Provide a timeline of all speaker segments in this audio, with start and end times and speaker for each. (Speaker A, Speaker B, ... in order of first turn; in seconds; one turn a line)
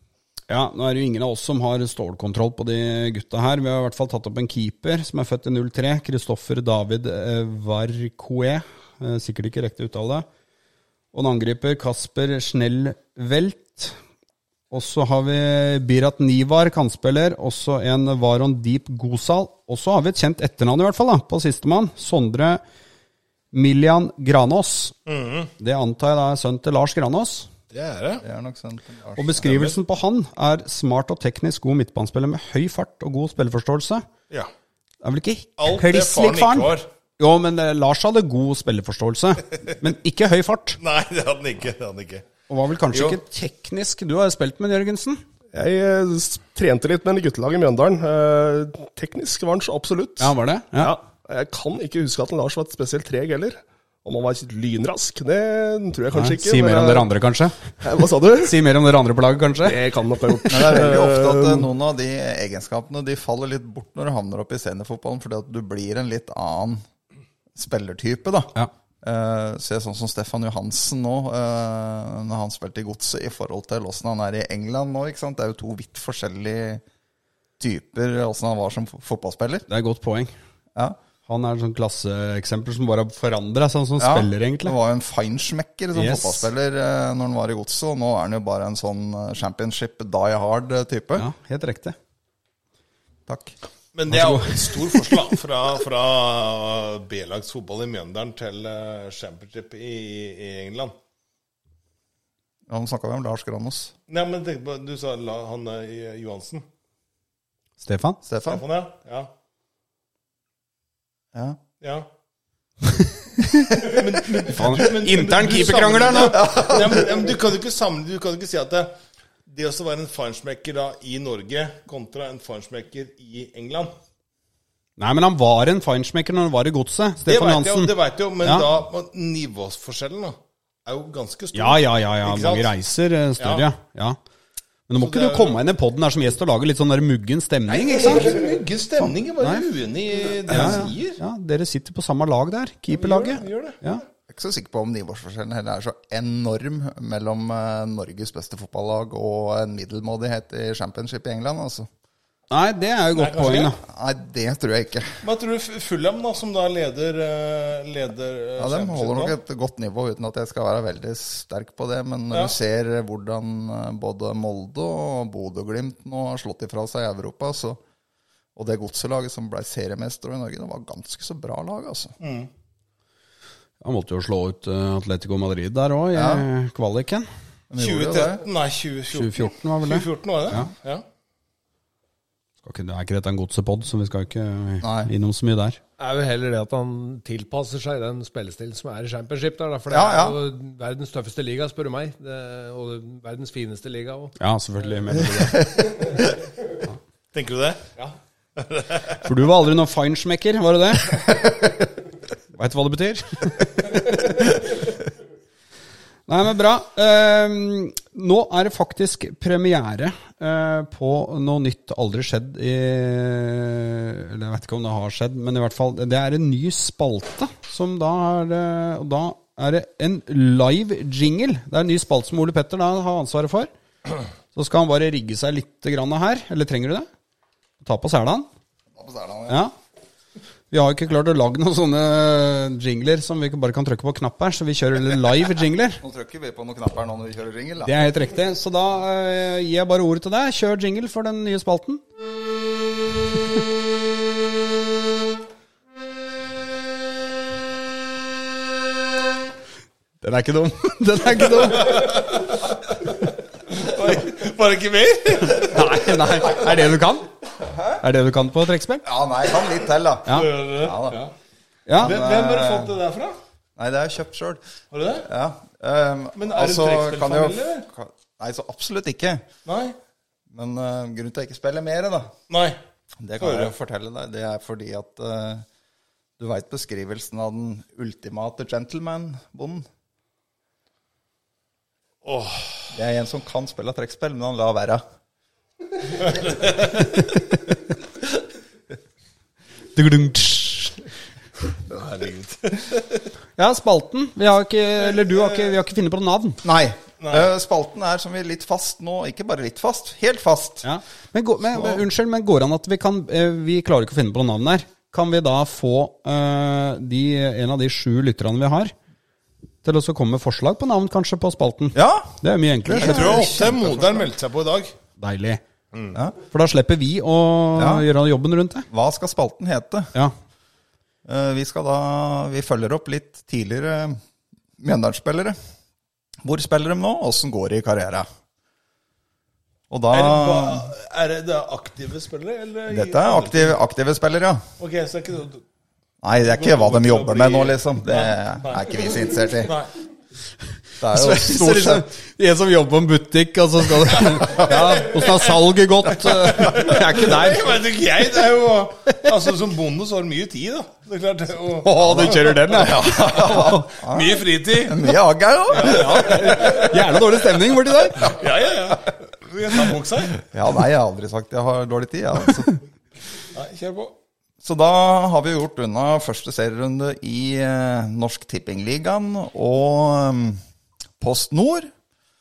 Speaker A: 0.5-10.3
Speaker A: 11.1-14.0
Speaker A: 14.7-22.6
Speaker A: 23.5-24.9
Speaker B: 25.1-25.5
Speaker A: 25.6-27.5
Speaker B: 27.7-28.2
Speaker C: 28.2-29.5
Speaker A: 29.2-34.1
Speaker B: 29.4-29.7
Speaker A: 35.0-40.8
Speaker B: 35.6-36.9
Speaker B: 40.8-42.2
Speaker A: 42.5-45.2
Speaker B: 42.9-43.2
Speaker D: 45.5-57.1
Speaker A: 50.2-50.9
Speaker A: 56.1-57.6
Speaker D: 57.8-58.6
Speaker A: 58.4-59.8
Speaker D: 59.6-61.7
Speaker C: 60.5-66.8
Speaker C: 67.5-76.8
Speaker C: 77.6-79.7
Speaker A: 79.7-80.3
Speaker A: 81.3-84.8
Speaker C: 84.0-91.3
Speaker A: 85.9-86.5
Speaker A: 91.2-92.0
Speaker C: 93.3-93.5
Speaker B: 93.9-100.9
Speaker A: 94.1-95.2
Speaker C: 102.7-103.9
Speaker B: 104.1-106.6
Speaker A: 107.8-108.2
Speaker C: 108.2-108.6
Speaker B: 108.5-109.3
Speaker C: 111.3-111.6
Speaker B: 111.8-112.1
Speaker C: 113.7-114.0
Speaker B: 113.8-118.9
Speaker A: 114.5-116.4
Speaker C: 116.3-117.1
Speaker B: 119.5-123.9
Speaker A: 125.0-127.9
Speaker B: 127.3-132.7
Speaker A: 131.5-134.2
Speaker B: 133.4-133.7
Speaker A: 134.9-138.4
Speaker B: 135.0-135.6
Speaker B: 137.7-141.2
Speaker A: 140.5-144.0
Speaker B: 142.9-143.8
Speaker C: 144.3-151.9
Speaker A: 152.5-153.8
Speaker B: 153.2-153.7
Speaker C: 153.8-155.2
Speaker B: 155.2-159.4
Speaker C: 158.6-167.8
Speaker C: 168.6-172.2
Speaker B: 172.2-172.5
Speaker A: 173.8-177.3
Speaker C: 176.1-176.4
Speaker C: 177.7-178.4
Speaker B: 177.8-181.0
Speaker A: 179.1-180.7
Speaker A: 182.6-185.8
Speaker C: 184.8-185.1
Speaker E: 186.0-194.3
Speaker C: 189.9-190.4
Speaker A: 194.4-195.9
Speaker B: 197.3-197.9
Speaker B: 198.6-199.2
Speaker A: 199.2-201.7
Speaker A: 202.5-204.7
Speaker A: 206.3-223.7
Speaker A: 224.5-227.1
Speaker A: 227.8-228.5
Speaker C: 228.9-229.6
Speaker A: 229.5-229.7
Speaker A: 230.7-236.0
Speaker C: 236.0-237.9
Speaker A: 237.8-242.0
Speaker A: 250.2-252.1
Speaker B: 251.8-252.7
Speaker B: 253.7-256.1
Speaker A: 255.5-257.3
Speaker C: 257.6-258.0
Speaker A: 258.0-259.0
Speaker C: 259.0-261.2
Speaker B: 260.3-261.3
Speaker A: 261.9-262.1
Speaker C: 262.0-262.9
Speaker B: 262.0-263.4
Speaker C: 263.8-264.6
Speaker B: 264.9-265.3
Speaker C: 265.2-269.4
Speaker B: 266.4-267.9
Speaker B: 269.6-269.9
Speaker C: 270.5-272.3
Speaker B: 272.5-272.8
Speaker C: 273.2-275.6
Speaker B: 273.4-273.7
Speaker C: 276.4-279.8
Speaker B: 282.2-282.9
Speaker C: 282.9-285.0
Speaker B: 286.2-287.1
Speaker A: 289.9-291.0
Speaker B: 291.9-293.2
Speaker A: 293.6-296.6
Speaker B: 295.1-295.7
Speaker C: 296.6-300.9
Speaker B: 297.2-297.5
Speaker A: 300.8-308.9
Speaker C: 301.7-302.0
Speaker A: 309.8-313.5
Speaker C: 311.9-314.2
Speaker B: 312.9-314.9
Speaker A: 315.2-315.6
Speaker A: 316.5-318.9
Speaker C: 317.8-318.1
Speaker C: 318.9-320.1
Speaker C: 321.2-324.2
Speaker C: 324.8-325.6
Speaker C: 326.4-328.3
Speaker C: 329.9-330.9
Speaker B: 330.1-333.8
Speaker C: 332.9-334.6
Speaker B: 334.8-335.6
Speaker C: 336.2-339.7
Speaker B: 336.4-338.9
Speaker B: 339.6-339.9
Speaker C: 341.0-342.1
Speaker A: 341.1-347.7
Speaker B: 344.5-345.4
Speaker B: 346.3-355.2
Speaker A: 351.8-353.9
Speaker C: 352.9-356.7
Speaker B: 355.7-357.0
Speaker A: 356.0-358.4
Speaker B: 358.2-360.4
Speaker C: 360.4-362.8
Speaker B: 363.5-364.1
Speaker C: 364.6-370.6
Speaker C: 371.2-371.9